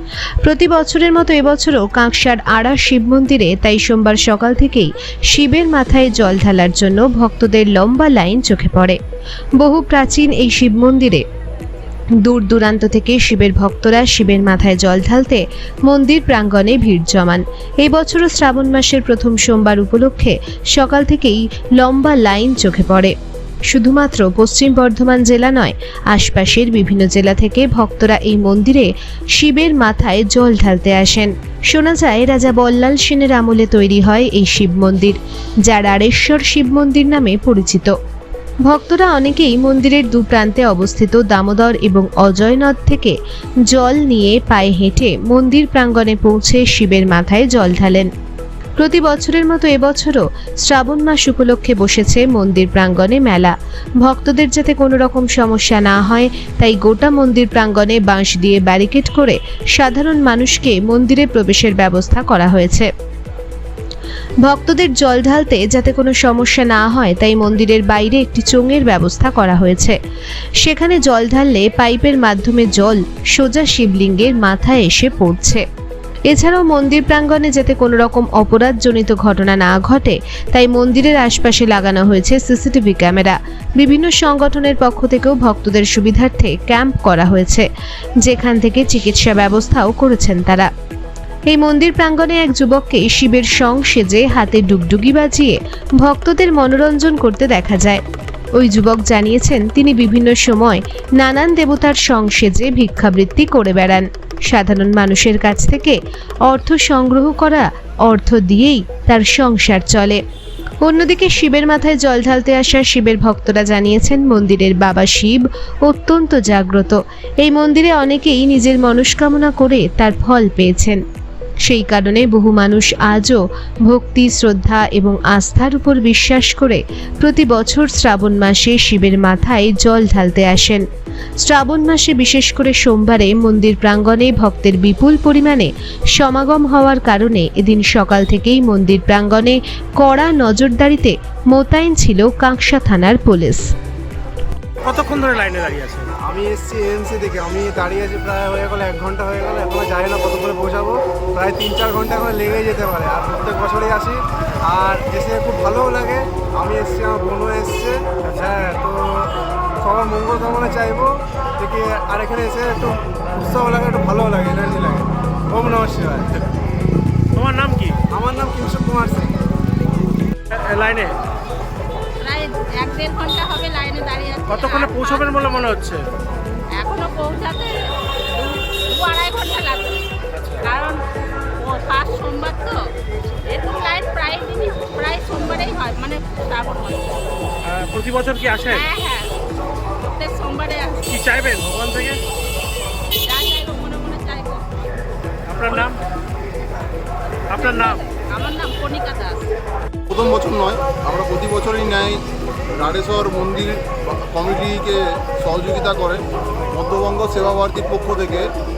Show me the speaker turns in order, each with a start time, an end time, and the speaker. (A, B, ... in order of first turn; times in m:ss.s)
0:00.4-0:09.0 A
0:09.6-0:11.2 A
0:12.2-0:23.1 A
0:23.7-0:37.9 A
0:38.6-0:43.2 A
0:43.7-0:48.1 A
0:48.8-1:02.9 A
1:04.4-1:10.0 A
1:10.6-1:15.6 A
1:16.3-1:27.7 A
1:28.2-1:30.7 A
1:31.5-1:38.0 A
1:38.6-1:50.2 A
1:50.8-2:01.0 A
2:01.6-2:10.8 A
2:11.4-2:23.6 A
2:24.8-2:26.1 B
2:26.3-2:34.2 C
2:34.8-2:39.3 C
2:39.8-2:46.3 C
2:47.3-2:48.0 B
2:48.1-2:49.4 C
2:50.5-2:51.1 B
2:52.2-2:55.3 D
2:54.5-2:56.0 B
2:56.8-2:57.8 D
2:58.3-3:00.1 D
3:00.3-3:00.7 B
3:00.6-3:01.0 D
3:01.6-3:02.8 D
3:03.4-3:07.2 D
3:07.7-3:08.8 B
3:08.7-3:09.3 D
3:10.0-3:11.1 D
3:11.1-3:12.2 B
3:13.2-3:14.8 D
3:15.5-3:16.0 B
3:17.5-3:18.0 B
3:17.6-3:19.5 D
3:20.1-3:22.2 E
3:22.8-3:28.4 E